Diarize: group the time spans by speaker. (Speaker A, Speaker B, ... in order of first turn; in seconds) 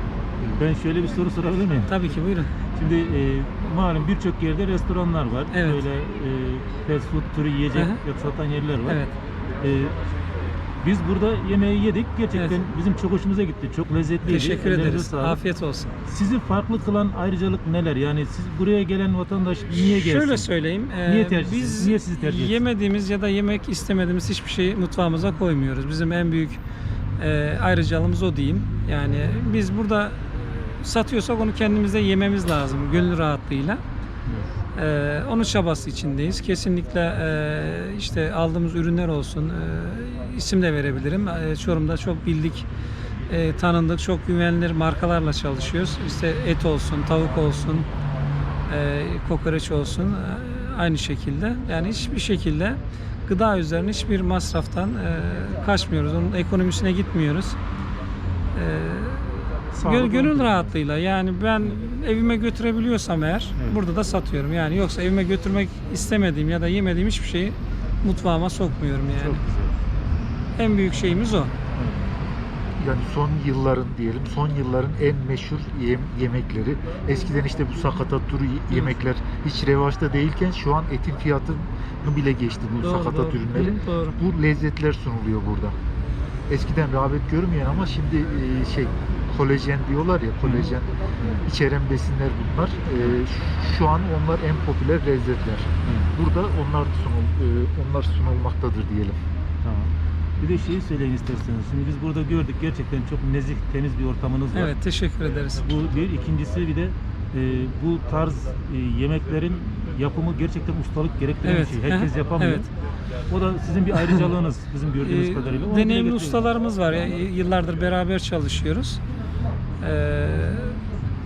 Speaker A: 0.6-2.0, 2.7-9.0, 9.6-9.9, 10.8-15.4, 16.1-20.5, 21.1-22.6, 59.7-60.7, 69.1-69.8, 71.8-72.0, 90.4-90.7, 95.8-96.1, 99.6-104.7, 105.6-112.7, 113.3-116.4
Speaker B: 1.9-2.5, 5.5-5.8, 7.7-8.0, 8.9-9.1, 14.2-15.9, 19.8-26.6, 27.2-33.8, 34.8-42.7, 43.3-47.9, 48.7-57.6, 58.5-69.4, 70.6-71.5, 82.8-84.2, 104.5-105.7, 111.4-112.7, 114.0-114.2, 115.0-119.0, 119.8-120.8
Speaker C: 72.8-85.8, 86.5-99.2